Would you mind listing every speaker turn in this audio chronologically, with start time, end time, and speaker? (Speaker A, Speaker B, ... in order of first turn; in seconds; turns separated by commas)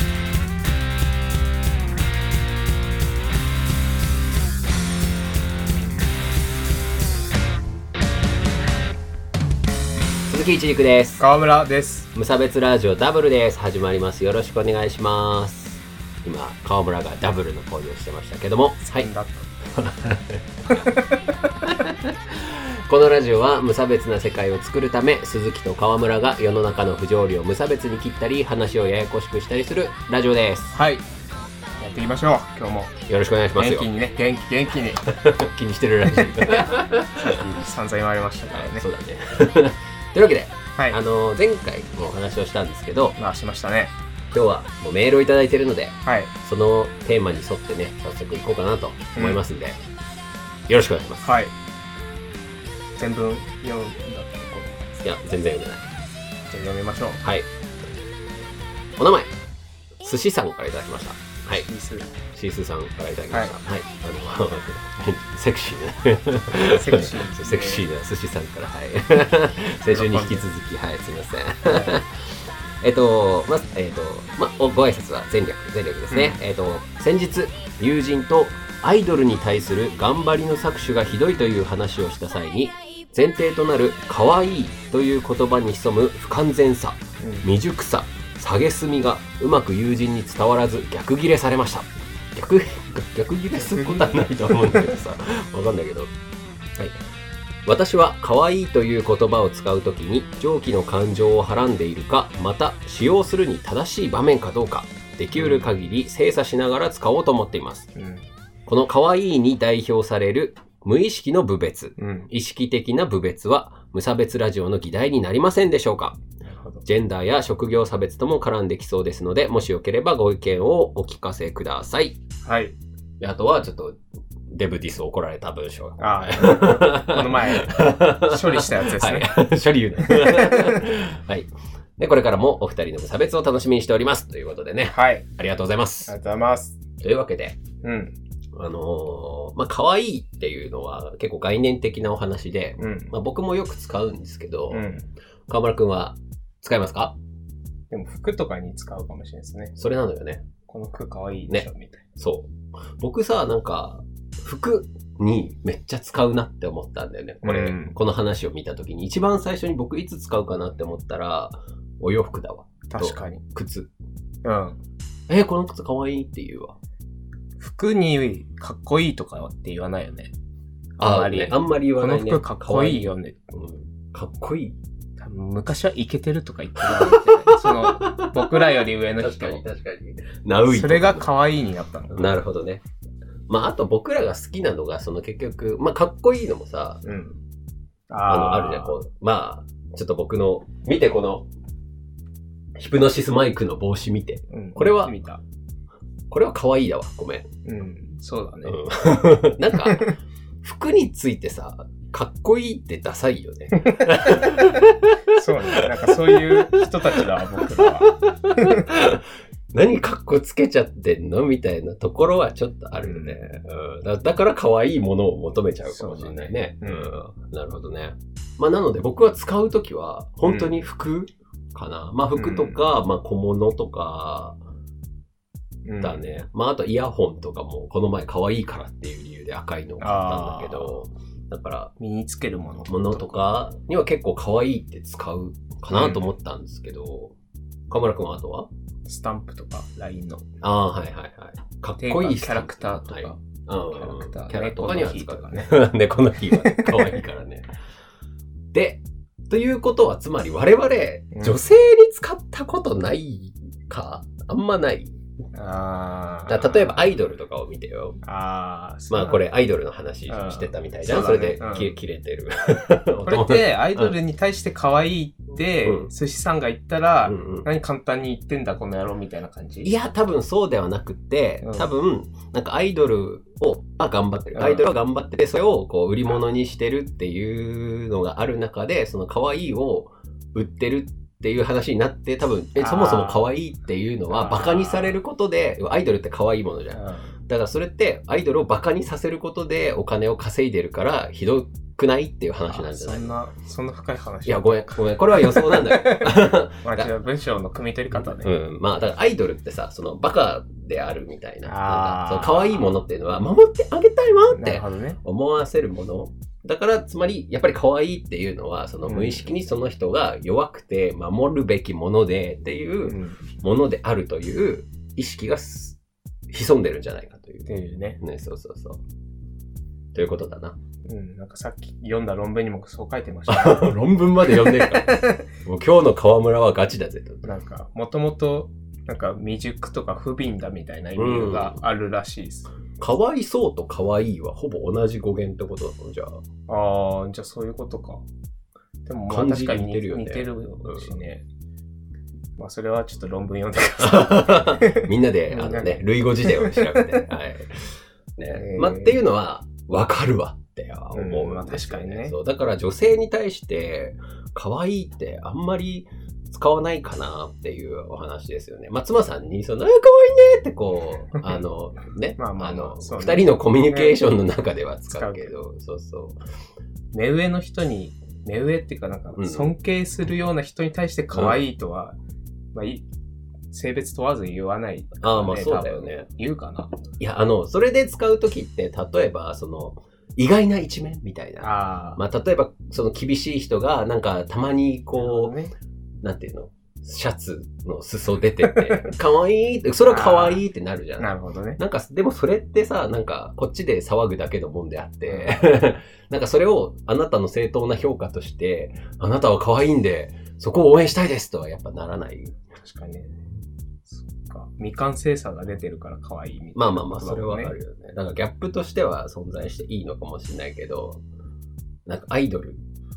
Speaker A: 10.2-11.2, Speaker B: 11.2-12.1, Speaker A: 12.1-19.1, Speaker B: 18.8-19.6, Speaker A: 19.8-20.4, Speaker B: 20.7-21.3, Speaker A: 21.7-30.8, Speaker B: 30.7-31.1, Speaker B: 31.8-32.9, Speaker A: 33.1-33.9, Speaker B: 33.5-35.0, Speaker A: 35.0-37.6, Speaker B: 36.1-36.5, Speaker B: 37.2-38.8, Speaker A: 38.5-43.2, Speaker B: 43.2-43.9, Speaker A: 44.3-49.8, Speaker B: 46.0-46.3, Speaker B: 49.1-49.4, Speaker A: 50.7-51.3, Speaker B: 51.2-51.5, Speaker B: 53.0-54.9, Speaker A: 55.0-55.8, Speaker B: 56.5-57.2, Speaker A: 57.2-57.5, Speaker A: 59.0-59.3, Speaker A: 60.0-61.7, Speaker B: 61.6-62.1, Speaker A: 62.3-96.1, Speaker B: 66.6-67.8, Speaker B: 69.9-70.4, Speaker B: 71.7-72.0, Speaker B: 76.1-76.4, Speaker B: 87.2-87.5, Speaker B: 93.5-94.9, Speaker A: 97.7-107.9, Speaker B: 105.4-105.7, Speaker B: 107.9-108.2, Speaker A: 108.7-116.2, Speaker B: 112.0-112.3, Speaker B: 116.4-116.8, Speaker A: 116.8-122.2, Speaker B: 122.4-122.8, Speaker A: 123.2-124.0, Speaker A: 124.5-136.1, Speaker B: 126.0-129.3, Speaker B: 130.0-130.8, Speaker B: 134.8-135.2, Speaker B: 136.1-136.8, Speaker A: 137.0-137.6, Speaker B: 137.8-138.2, Speaker A: 138.5-144.8, Speaker B: 142.8-143.1, Speaker B: 144.7-145.1, Speaker A: 145.5-147.2, Speaker B: 147.9-149.7, Speaker A: 149.8-150.4, Speaker B: 150.7-152.0, Speaker A: 152.2-163.9, Speaker B: 157.4-157.9, Speaker B: 162.9-163.4, Speaker B: 164.4-164.8, Speaker A: 165.3-166.8, Speaker B: 167.6-170.3, Speaker B: 171.0-173.4, Speaker A: 171.0-174.8, Speaker B: 175.2-179.6, Speaker A: 176.8-181.3, Speaker B: 180.7-182.4, Speaker A: 182.1-182.8, Speaker A: 183.5-187.0, Speaker B: 187.0-187.4, Speaker B: 188.1-188.9, Speaker A: 188.2-191.5, Speaker A: 192.8-195.2, Speaker B: 194.5-195.4, Speaker A: 196.3-197.5, Speaker B: 197.6-198.9, Speaker A: 198.6-224.6, Speaker B: 199.7-200.1, Speaker B: 203.8-204.6, Speaker B: 205.3-208.9, Speaker B: 213.0-213.4, Speaker B: 215.8-217.1, Speaker B: 220.4-220.8, Speaker B: 222.3-222.8, Speaker B: 225.8-226.4, Speaker A: 226.0-231.9, Speaker B: 230.0-230.9, Speaker B: 232.0-233.6, Speaker A: 232.8-237.3, Speaker B: 235.9-236.3, Speaker A: 237.9-238.7, Speaker B: 239.1-240.4, Speaker A: 240.6-247.7, Speaker B: 242.0-245.8, Speaker B: 246.5-247.2, Speaker A: 248.7-255.1, Speaker B: 251.3-251.6, Speaker B: 255.5-257.1, Speaker A: 256.5-258.2, Speaker B: 258.2-259.4, Speaker A: 259.1-264.2, Speaker B: 260.3-261.9, Speaker B: 263.2-270.0, Speaker A: 265.8-266.1, Speaker A: 267.2-267.7, Speaker A: 269.8-293.3, Speaker B: 271.6-271.9, Speaker B: 274.5-274.9, Speaker B: 282.8-283.5, Speaker B: 284.3-285.2, Speaker B: 286.9-287.3, Speaker B: 292.7-298.5, Speaker A: 294.4-297.1, Speaker A: 298.1-316.0, Speaker B: 301.6-303.0, Speaker B: 304.5-305.2, Speaker B: 309.0-309.5, Speaker B: 313.0-313.4, Speaker A: 316.5-317.7, Speaker B: 317.6-318.2, Speaker A: 318.2-319.0, Speaker A: 320.1-320.8, Speaker B: 321.1-323.9, Speaker A: 323.5-327.5, Speaker B: 324.5-325.4, Speaker B: 327.4-332.7, Speaker A: 331.1-331.8, Speaker A: 333.0-336.4, Speaker B: 336.7-338.2, Speaker B: 339.1-341.4, Speaker A: 339.3-341.1, Speaker B: 342.6-347.2, Speaker A: 344.0-366.4, Speaker B: 348.5-349.2, Speaker B: 351.1-352.3, Speaker B: 361.4-361.6, Speaker B: 362.4-364.3, Speaker B: 365.1-365.5, Speaker B: 367.1-372.2, Speaker A: 369.4-369.7, Speaker A: 371.3-371.6, Speaker B: 372.7-373.1, Speaker B: 373.7-377.0, Speaker A: 375.2-376.3, Speaker A: 377.2-385.5, Speaker B: 381.6-382.2, Speaker B: 385.1-385.7, Speaker A: 386.2-402.6, Speaker B: 388.7-389.1, Speaker B: 390.0-390.6, Speaker B: 391.2-391.8, Speaker B: 395.2-395.6, Speaker B: 402.8-403.4, Speaker B: 404.1-407.7, Speaker A: 406.7-411.2, Speaker A: 412.1-412.8